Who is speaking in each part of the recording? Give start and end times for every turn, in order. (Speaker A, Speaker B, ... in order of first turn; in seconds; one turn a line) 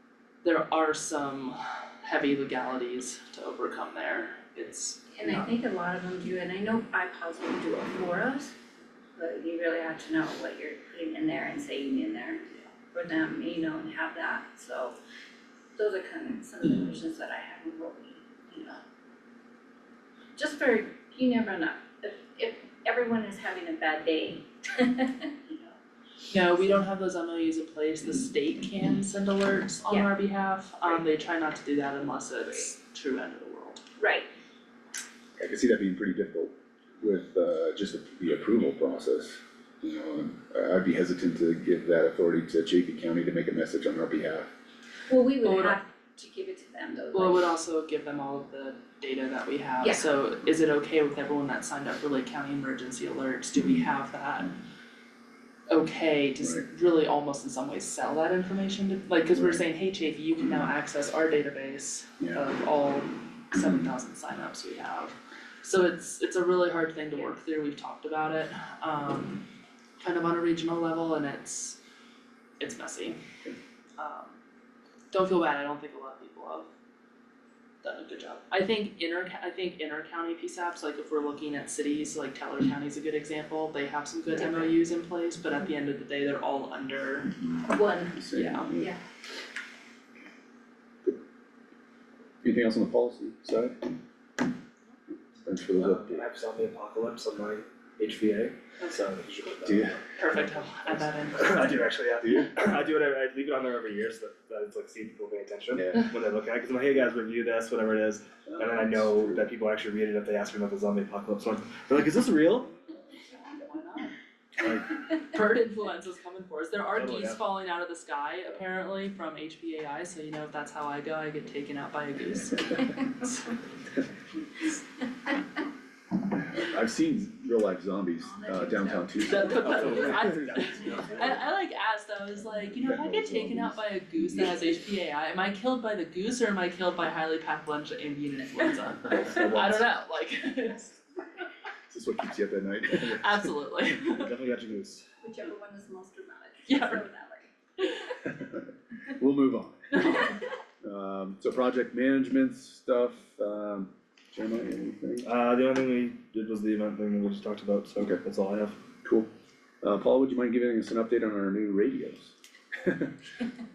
Speaker A: 0.4-5.5
Speaker B: 5.2-8.5
Speaker B: 9.2-15.0
Speaker B: 15.8-18.8
Speaker B: 20.4-25.7
Speaker A: 26.3-33.8
Speaker B: 34.0-34.3
Speaker C: 35.4-44.5
Speaker B: 45.1-47.5
Speaker A: 45.4-45.8
Speaker A: 47.1-54.5
Speaker B: 49.8-50.0
Speaker A: 55.7-69.4
Speaker C: 59.3-59.6
Speaker C: 63.6-63.9
Speaker A: 70.0-71.8
Speaker A: 72.6-73.2
Speaker A: 74.0-74.3
Speaker A: 75.1-76.7
Speaker A: 77.8-87.4
Speaker B: 84.3-84.7
Speaker B: 87.6-89.0
Speaker C: 88.1-88.9
Speaker A: 88.3-88.7
Speaker C: 92.4-93.8
Speaker C: 95.4-96.2
Speaker D: 95.8-100.0
Speaker C: 99.6-100.0
Speaker A: 100.2-101.8
Speaker D: 101.3-112.7
Speaker C: 105.8-106.1
Speaker C: 108.5-109.5
Speaker A: 113.4-123.5
Speaker D: 116.9-117.4
Speaker C: 126.3-130.4
Speaker B: 128.2-130.2
Speaker A: 129.3-141.0
Speaker D: 129.6-131.2
Speaker C: 132.7-134.5
Speaker C: 139.3-139.7
Speaker C: 141.9-143.3
Speaker A: 142.9-144.3
Speaker D: 144.0-145.0
Speaker B: 145.2-147.9
Speaker A: 146.7-147.0
Speaker C: 148.3-150.1
Speaker A: 150.0-150.3
Speaker C: 150.8-155.3
Speaker D: 155.2-158.8
Speaker C: 159.0-159.3
Speaker C: 159.8-162.3
Speaker C: 162.8-163.1